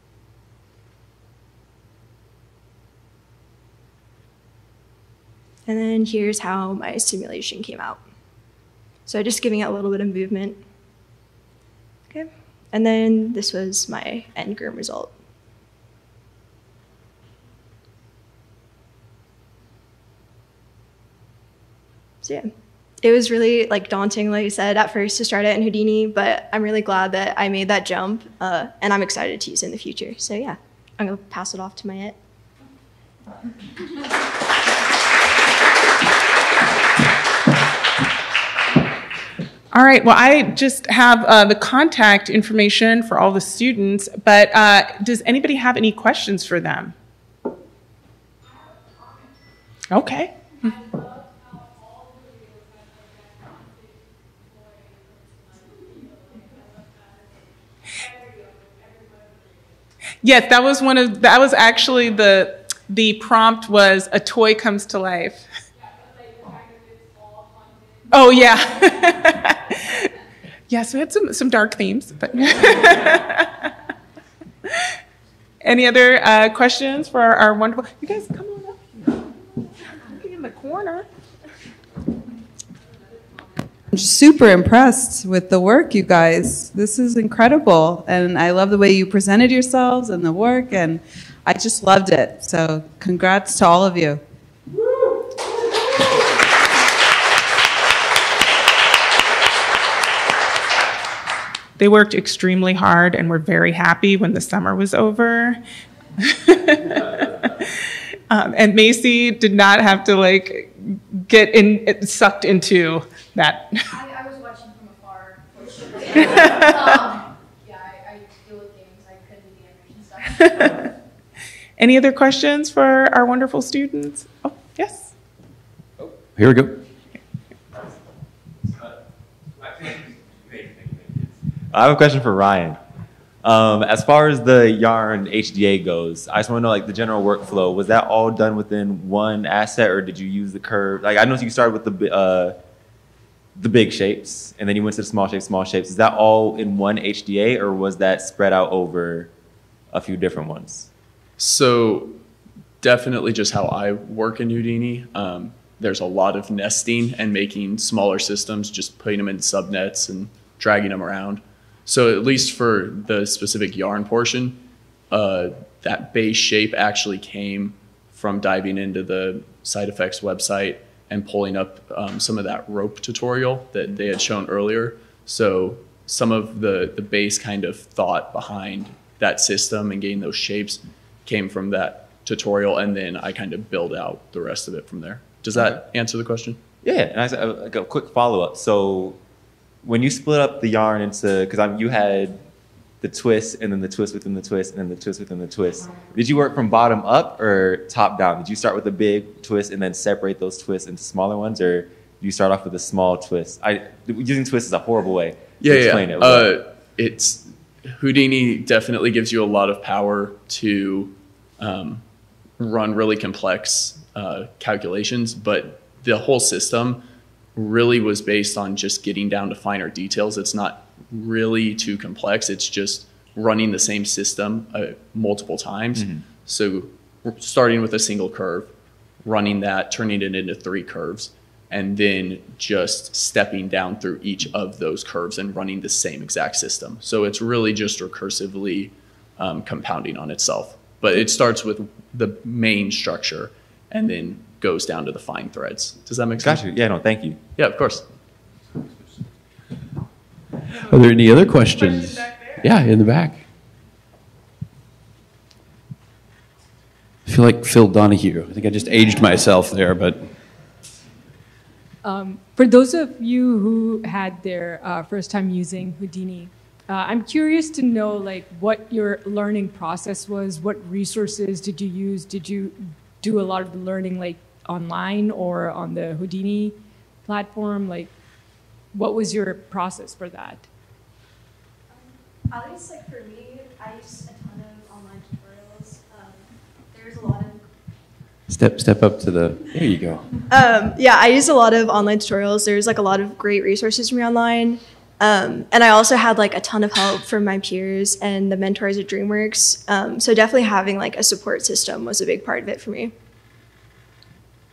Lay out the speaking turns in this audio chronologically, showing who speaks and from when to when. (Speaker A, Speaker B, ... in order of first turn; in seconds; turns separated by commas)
Speaker A: 5.7-8.0, Speaker A: 9.1-10.6, Speaker A: 12.1-15.1, Speaker A: 22.2-22.5, Speaker A: 23.0-32.2, Speaker B: 39.7-47.0, Speaker B: 49.9-50.8, Speaker B: 60.2-65.5, Speaker B: 68.1-70.1, Speaker B: 70.7-73.7, Speaker B: 75.6-79.2, Speaker B: 80.1-81.1, Speaker C: 83.9-94.2, Speaker B: 101.8-105.6, Speaker B: 106.3-107.7, Speaker B: 108.3-113.8, Speaker D: 113.9-120.4, Speaker B: 116.2-117.0, Speaker B: 120.4-120.9, Speaker B: 121.8-125.1, Speaker E: 126.3-126.8, Speaker F: 129.6-132.8, Speaker F: 133.4-142.6, Speaker F: 143.6-149.3, Speaker F: 149.9-150.9, Speaker G: 151.4-152.2, Speaker G: 152.8-186.6, Speaker F: 186.8-189.2, Speaker F: 189.8-192.4, Speaker F: 193.0-206.6, Speaker G: 205.6-212.0, Speaker G: 212.6-217.0, Speaker G: 217.6-228.7, Speaker F: 225.9-226.2, Speaker G: 229.2-246.7, Speaker F: 246.4-247.4, Speaker G: 247.6-248.1, Speaker E: 250.8-253.4, Speaker E: 257.3-260.3, Speaker H: 262.0-278.1, Speaker H: 278.9-280.7, Speaker A: 281.9-287.6, Speaker E: 288.5-290.3, Speaker A: 290.5-303.1